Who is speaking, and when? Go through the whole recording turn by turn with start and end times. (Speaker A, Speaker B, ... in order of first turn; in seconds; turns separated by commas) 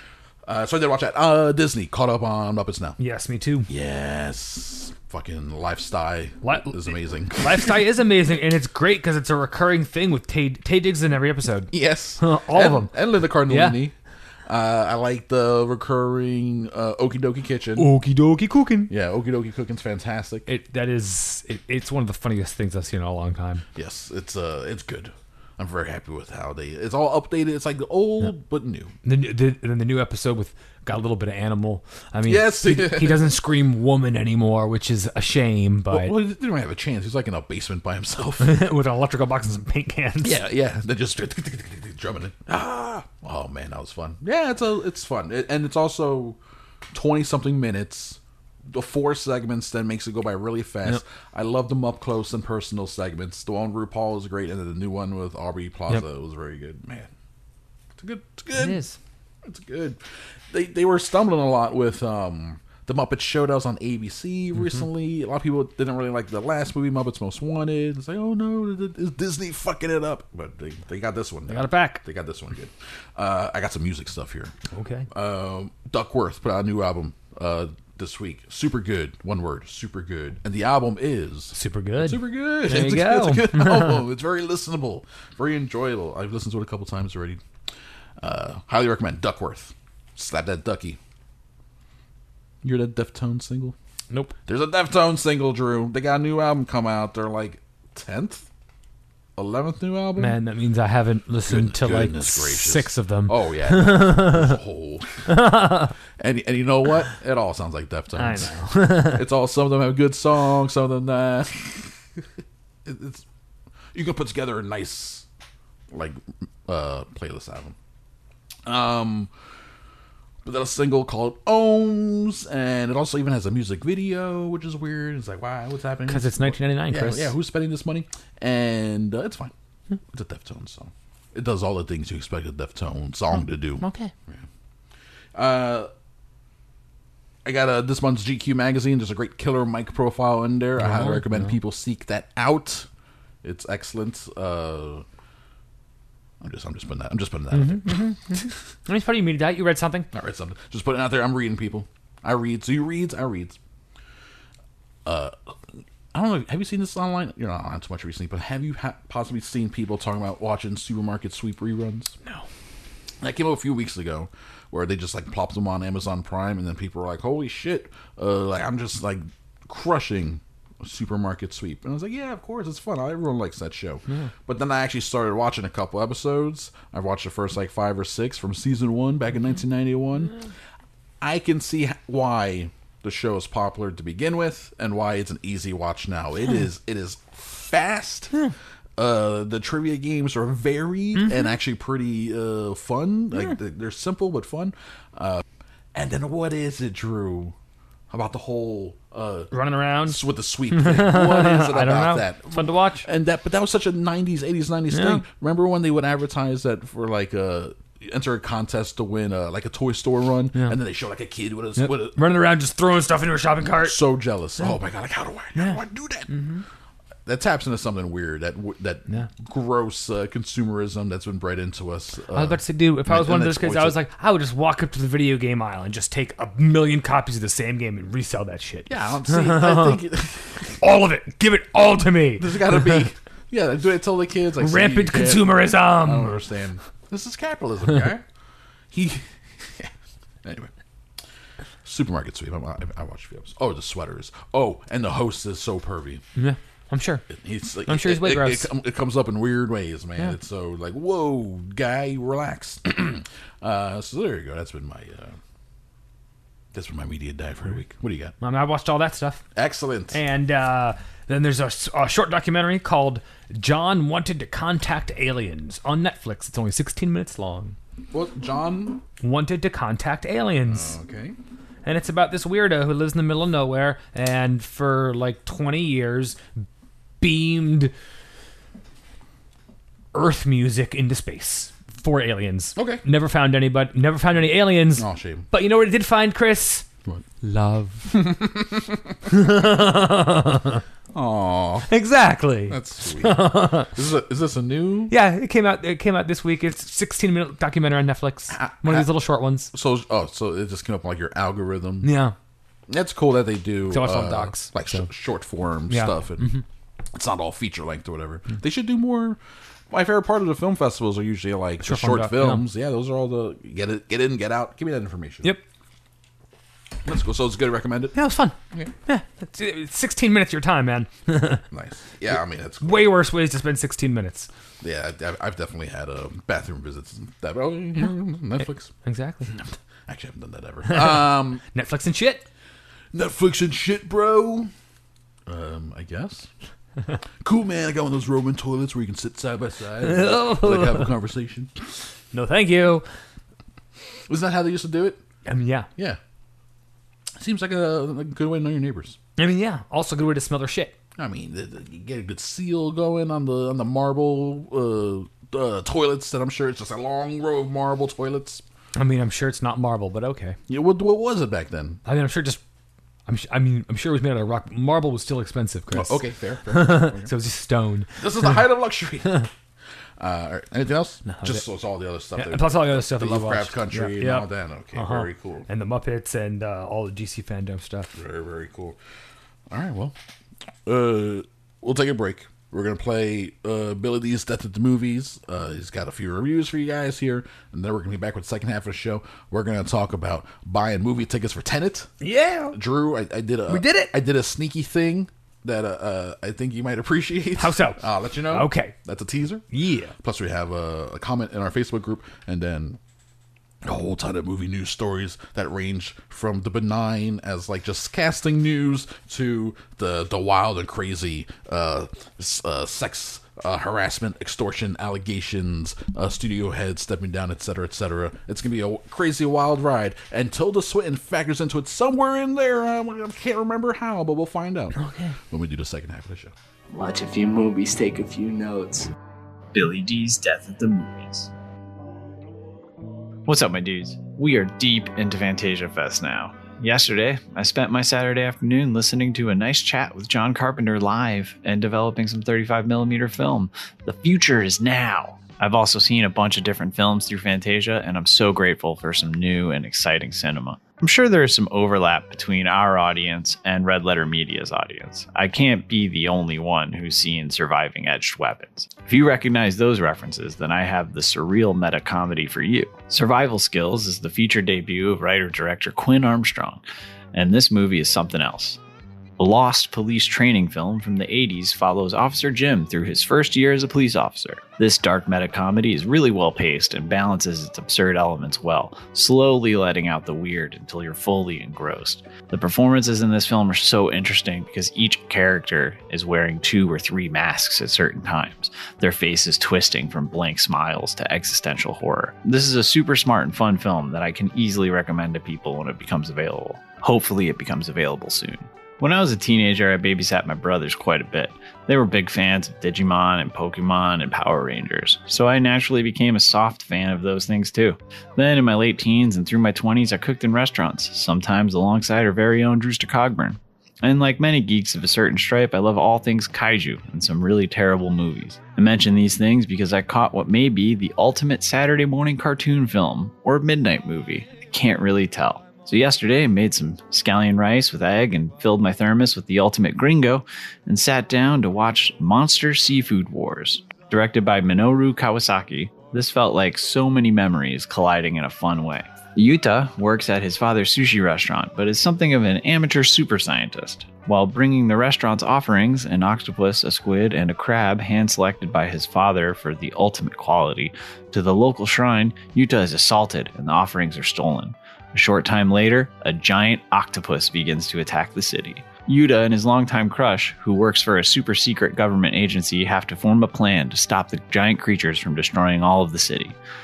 Speaker A: 0.4-3.0, Speaker B: 3.0-3.7, Speaker A: 3.7-7.8, Speaker B: 6.4-6.8, Speaker B: 7.4-12.9, Speaker A: 11.7-13.9, Speaker B: 13.4-13.8, Speaker A: 14.5-17.9, Speaker B: 17.8-18.9, Speaker A: 18.9-20.5, Speaker B: 20.5-23.6, Speaker A: 23.7-28.9, Speaker B: 29.0-36.1, Speaker A: 32.2-33.3, Speaker A: 35.9-38.6, Speaker B: 38.4-40.4, Speaker A: 40.2-46.4, Speaker A: 46.9-57.1, Speaker A: 58.0-58.8, Speaker B: 58.5-59.0, Speaker A: 59.4-60.0, Speaker A: 60.5-74.5, Speaker B: 71.5-72.0, Speaker B: 74.7-75.1, Speaker A: 75.1-87.4, Speaker B: 81.5-84.0, Speaker A: 88.2-91.0, Speaker A: 92.6-93.7, Speaker A: 94.5-98.5, Speaker A: 99.4-100.4, Speaker B: 100.2-104.5, Speaker A: 101.5-111.9, Speaker B: 105.3-105.9, Speaker B: 108.2-109.2, Speaker A: 112.8-113.2, Speaker A: 113.9-115.2, Speaker A: 115.9-117.8, Speaker A: 118.7-119.3, Speaker A: 120.4-129.5, Speaker B: 126.1-127.3, Speaker A: 130.1-134.4, Speaker B: 133.8-134.1, Speaker A: 135.3-135.9, Speaker A: 137.4-142.9, Speaker B: 140.8-141.5, Speaker A: 143.4-145.0, Speaker A: 146.4-148.2, Speaker B: 147.5-150.1, Speaker A: 150.1-153.6, Speaker A: 155.0-155.5, Speaker A: 156.1-162.2, Speaker A: 163.2-180.3, Speaker A: 181.2-195.4, Speaker A: 195.9-197.5, Speaker A: 198.1-199.5, Speaker B: 199.5-200.2, Speaker A: 200.0-212.2, Speaker B: 200.7-203.1, Speaker B: 204.9-205.2, Speaker B: 211.8-214.0, Speaker A: 213.8-216.4, Speaker B: 215.5-216.6, Speaker A: 217.2-224.0, Speaker B: 222.3-230.0, Speaker A: 228.9-230.8, Speaker B: 230.8-233.1, Speaker A: 232.4-238.2, Speaker B: 234.6-236.3, Speaker A: 238.9-239.9, Speaker A: 240.4-240.7, Speaker A: 241.8-246.2, Speaker B: 246.3-247.2, Speaker A: 247.3-255.3, Speaker B: 247.8-248.7, Speaker A: 256.7-258.3, Speaker B: 258.4-259.4, Speaker A: 259.5-260.2, Speaker B: 260.1-267.8, Speaker A: 268.1-269.0, Speaker B: 269.2-270.9, Speaker A: 270.7-271.4, Speaker B: 271.8-276.4, Speaker B: 277.2-277.9, Speaker B: 280.1-286.9, Speaker A: 282.8-283.0, Speaker A: 284.9-285.5, Speaker B: 287.4-288.3, Speaker A: 288.1-289.0, Speaker B: 289.3-290.8, Speaker A: 291.1-291.9, Speaker B: 291.9-293.9, Speaker A: 292.7-295.1, Speaker B: 295.1-299.7, Speaker A: 298.5-299.1, Speaker A: 299.7-302.1, Speaker B: 302.0-302.3, Speaker A: 302.9-306.6, Speaker B: 303.9-305.1, Speaker B: 305.9-306.6, Speaker A: 307.1-309.4, Speaker A: 309.9-315.6, Speaker B: 311.8-312.6, Speaker A: 317.0-318.2, Speaker B: 318.1-321.6, Speaker A: 321.7-323.2, Speaker B: 322.8-324.5, Speaker A: 324.8-328.9, Speaker B: 329.0-329.5, Speaker A: 329.5-331.6, Speaker B: 330.9-332.4, Speaker A: 333.1-334.7, Speaker A: 335.5-336.5, Speaker A: 337.4-341.7, Speaker B: 340.0-341.1, Speaker B: 342.3-343.0, Speaker A: 344.3-345.2, Speaker B: 345.4-345.9, Speaker A: 347.4-349.2, Speaker B: 349.4-350.9, Speaker A: 351.2-358.6, Speaker B: 358.9-360.6, Speaker A: 360.7-362.0, Speaker B: 362.1-362.6, Speaker B: 363.3-368.1, Speaker A: 365.9-367.4, Speaker A: 368.1-369.5, Speaker A: 370.2-375.7, Speaker B: 371.2-371.6, Speaker B: 372.3-378.1, Speaker A: 378.1-379.0, Speaker A: 379.7-380.1, Speaker A: 380.8-392.1, Speaker B: 392.2-392.8, Speaker A: 392.7-399.6, Speaker B: 393.7-394.1, Speaker B: 397.6-398.9, Speaker B: 399.7-400.1, Speaker A: 400.2-403.0, Speaker A: 403.8-424.9, Speaker B: 424.9-425.3, Speaker A: 425.5-426.5, Speaker C: 426.9-429.1, Speaker D: 429.7-431.5, Speaker D: 433.5-468.8, Speaker D: 469.4-566.5